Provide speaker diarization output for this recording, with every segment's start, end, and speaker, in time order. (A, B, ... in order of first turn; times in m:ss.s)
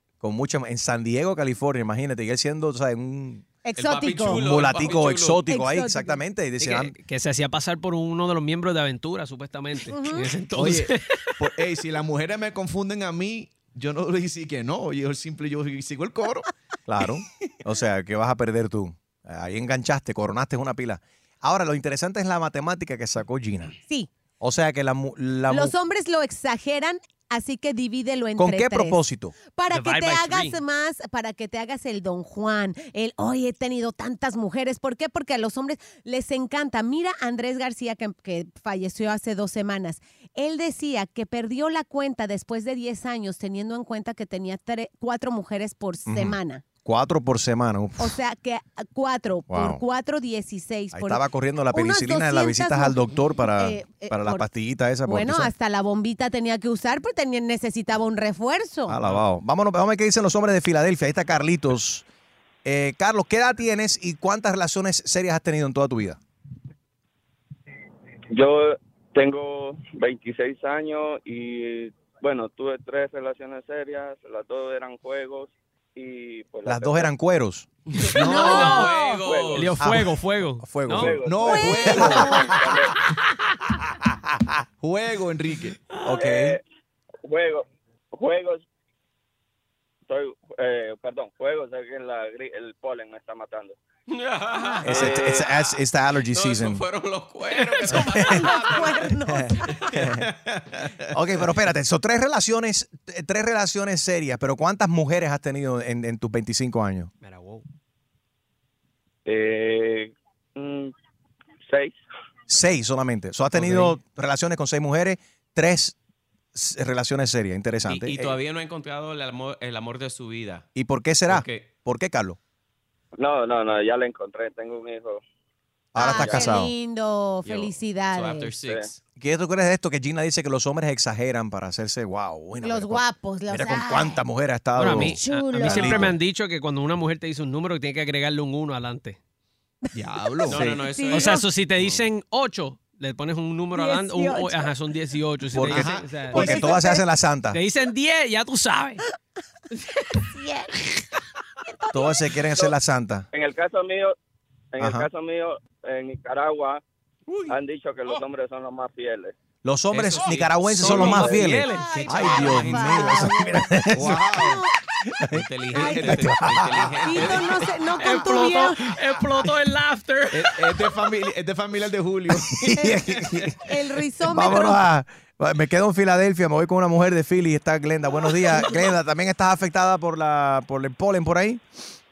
0:00.2-0:03.4 A
0:03.6-0:04.8 B
0:03.8-0:05.5 C
0:04.3-0:06.9 A
0:05.4-0:06.2 B
0:06.6-0:11.4 D
0:09.8-0:10.4 B
0:10.5-0:16.5 E
0:16.9-0:23.7 A
0:24.4-0:25.7 A
0:25.5-0:46.6 B
0:28.4-0:29.3 A
0:29.7-0:30.6 D
0:46.1-0:48.2 A
0:48.0-0:53.0 B
0:49.5-0:49.8 A
0:50.9-0:55.5 A
0:53.6-0:54.5 B
0:55.0-0:59.0 B
0:58.9-1:02.0 A
1:02.6-1:06.2 A
1:08.3-1:17.1 F
1:16.6-1:17.7 A
1:18.0-1:20.0 C
1:18.2-1:18.8 E
1:18.2-1:19.2 B
1:18.3-1:21.2 D
1:19.2-1:19.6 F
1:19.8-1:21.2 A
1:20.9-1:22.9 F
1:21.2-1:22.4 E
1:21.4-1:22.6 B
1:21.9-1:22.7 A
1:24.0-1:24.6 A
1:24.8-1:25.8 E
1:26.0-1:26.6 A
1:26.1-1:26.6 F
1:27.2-1:28.6 F
1:30.1-1:33.8 F
1:34.1-1:35.8 C
1:34.8-1:36.8 A
1:34.9-1:35.4 F
1:36.3-1:39.1 C
1:37.6-1:37.9 D
1:37.9-1:39.8 B
1:37.9-1:38.5 A
1:39.8-1:40.2 C
1:40.0-1:40.2 A
1:40.0-1:40.3 E
1:41.1-1:47.1 A
1:47.2-1:47.6 D
1:49.2-1:50.9 F
1:51.6-1:52.0 F
1:52.5-1:56.0 A
1:53.5-1:54.0 D
1:56.5-1:58.4 A
1:57.9-2:00.6 C
2:00.7-2:02.4 A
2:01.3-2:01.7 C
2:03.2-2:05.2 F
2:05.9-2:06.7 A
2:06.0-2:08.6 B
2:06.1-2:06.5 F
2:07.4-2:09.0 C
2:08.6-2:08.9 F
2:09.2-2:16.2 A
2:12.6-2:14.2 B
2:14.8-2:19.2 D
2:14.8-2:16.1 B
2:19.9-2:20.8 E
2:20.5-2:22.0 C
2:20.5-2:21.5 B
2:21.0-2:26.8 D
2:23.7-2:24.7 B
2:25.5-2:27.6 A
2:26.3-2:27.0 B
2:27.5-2:29.0 D
2:30.3-2:30.7 B
2:31.9-2:33.3 A
2:33.3-2:34.2 F
2:34.7-2:36.8 F
2:34.8-2:35.0 A
2:37.5-2:39.3 F
2:39.6-2:44.3 A
2:39.9-2:43.2 C
2:40.8-2:43.3 D
2:41.7-2:44.7 B
2:43.9-2:44.6 E
2:45.3-2:47.2 A
2:45.3-2:47.7 C
2:45.7-2:46.5 B
2:47.0-2:48.9 B
2:48.0-2:51.0 D
2:50.3-2:52.7 E
2:52.6-2:53.5 A
2:53.6-2:54.8 B
2:54.3-3:01.6 A